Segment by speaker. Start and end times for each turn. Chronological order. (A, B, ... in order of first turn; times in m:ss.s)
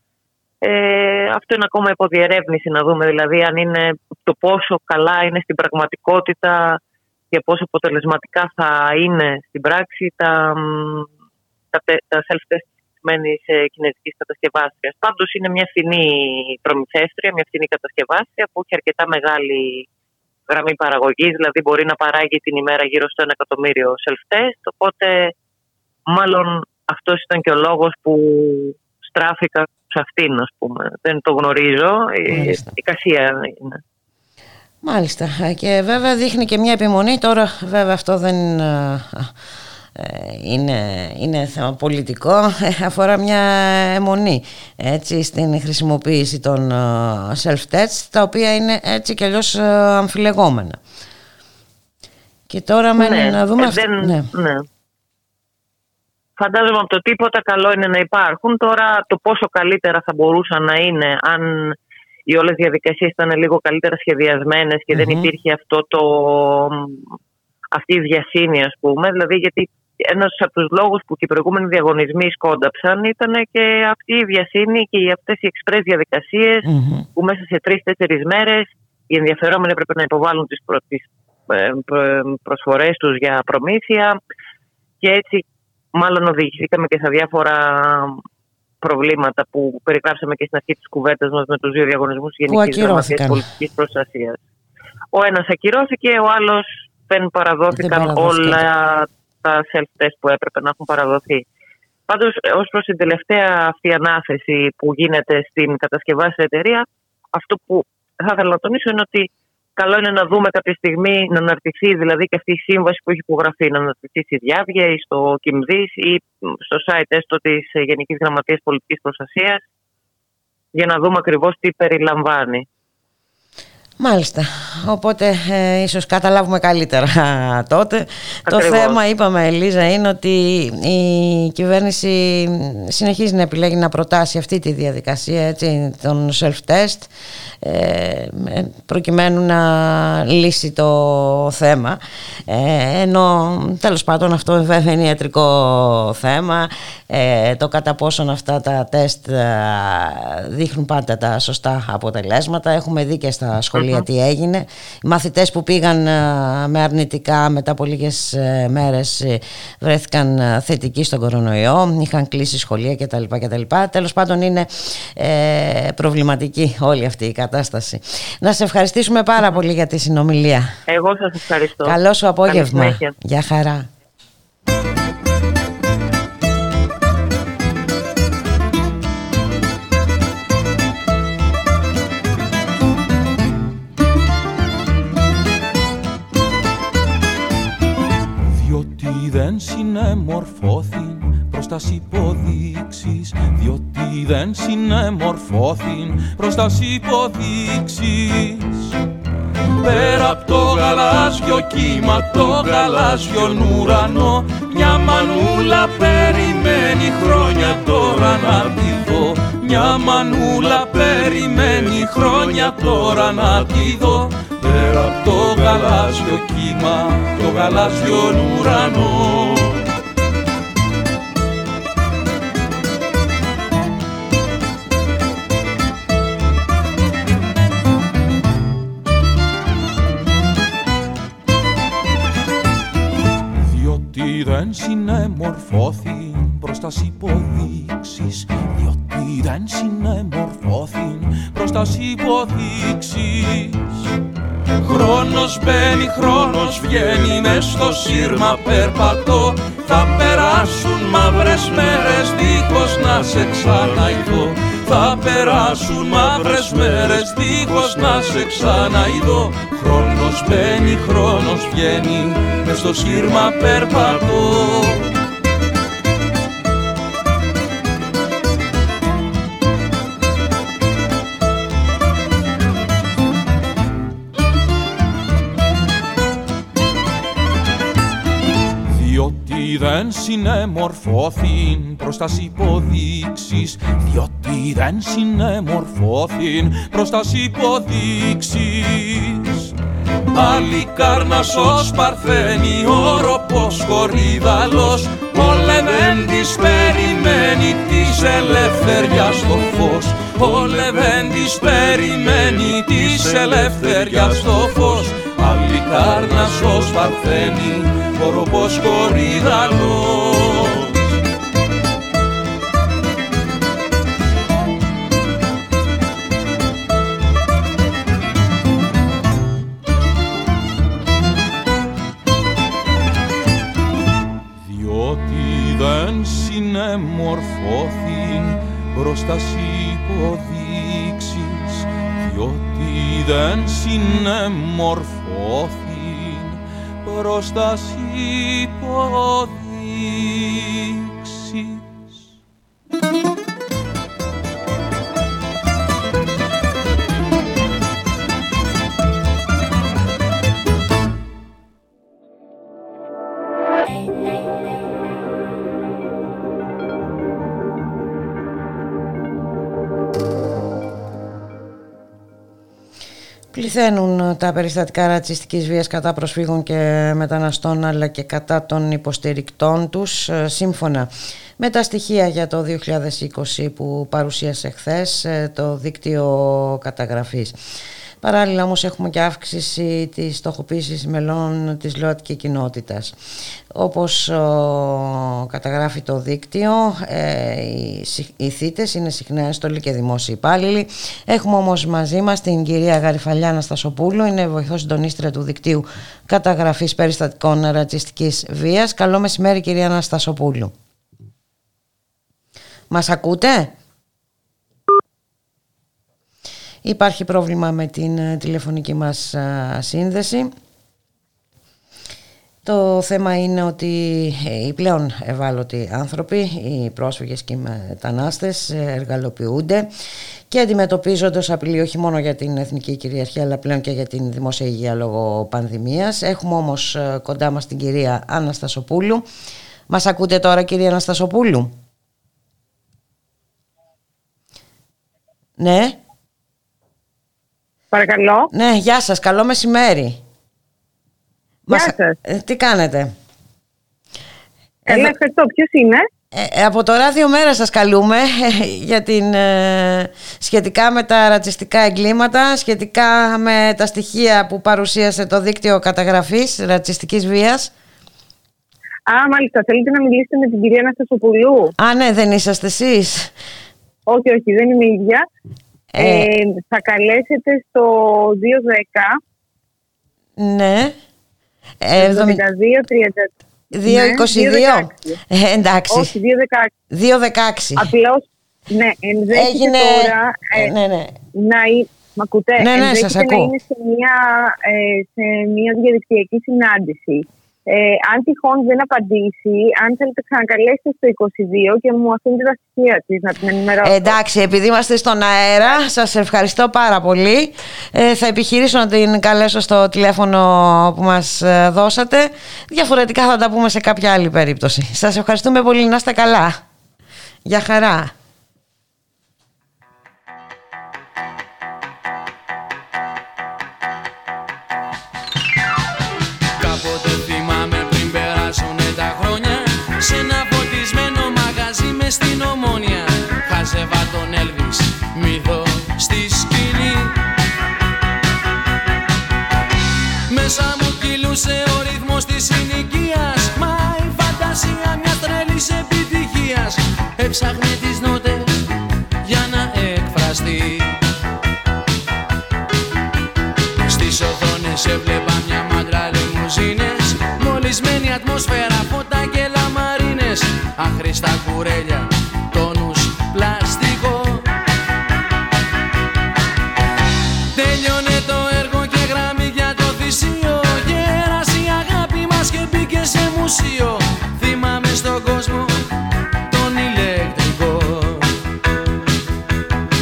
0:00.6-0:06.8 A
0:07.3-0:11.1 A
0:11.7-0:19.9 A
0:20.5-0:25.3 A
0:26.1-0:33.8 A
0:32.3-0:32.7 B
0:34.8-0:39.3 B
0:40.0-0:50.8 B
0:52.5-0:54.3 B
0:53.0-0:54.7 A
0:56.4-1:01.7 A
1:02.3-1:07.0 A
1:04.9-1:05.3 B
1:07.7-1:24.2 A
1:16.7-1:17.1 B
1:25.0-1:28.2 A
1:28.8-1:34.4 A
1:32.5-1:33.4 B
1:35.1-1:41.4 A
1:37.8-1:38.6 B
1:42.1-1:59.6 A
2:00.7-2:02.7 A
2:04.0-2:50.7 B
2:08.5-2:09.0 A
2:33.8-2:34.0 A
2:50.9-2:53.1 A
2:51.8-2:53.9 B
3:08.4-3:18.9 C
3:19.8-3:39.7 C
3:53.6-4:04.0 C
4:04.8-4:25.0 C
4:38.9-4:49.7 C
4:50.3-5:10.9 C
5:24.6-5:42.4 C
6:03.5-6:17.6 B
6:18.2-6:23.2 B
6:23.7-6:40.7 B
6:42.9-6:43.7 B
6:46.8-6:50.5 B
6:52.6-6:59.9 B
7:00.5-7:09.2 B
7:09.9-7:11.7 B
7:15.6-7:16.0 B
7:17.9-7:18.5 D
7:18.5-7:20.2 B
7:21.7-7:23.1 B
7:21.7-7:22.2 D
7:24.9-7:25.2 B
7:24.9-7:26.0 D
7:26.3-7:37.7 B
7:39.1-7:41.7 D
7:41.8-7:43.3 B
7:44.1-7:45.2 D
7:45.9-7:46.3 B
7:46.0-7:49.1 D
7:50.4-7:51.0 B
7:51.8-7:52.4 B
7:52.0-7:53.3 D
7:53.7-7:56.1 B
7:53.8-7:55.2 D
7:55.9-7:56.7 D
7:56.9-7:57.9 B
7:57.8-8:00.7 D
7:59.3-8:01.2 B
8:01.4-8:14.1 D
8:02.6-8:03.5 B
8:13.8-8:26.6 B
8:27.5-8:28.1 B
8:36.6-8:47.2 E
8:50.3-8:58.6 E
8:59.2-9:01.0 E
9:03.8-9:14.5 E
9:17.5-9:25.9 E
9:26.5-9:28.3 E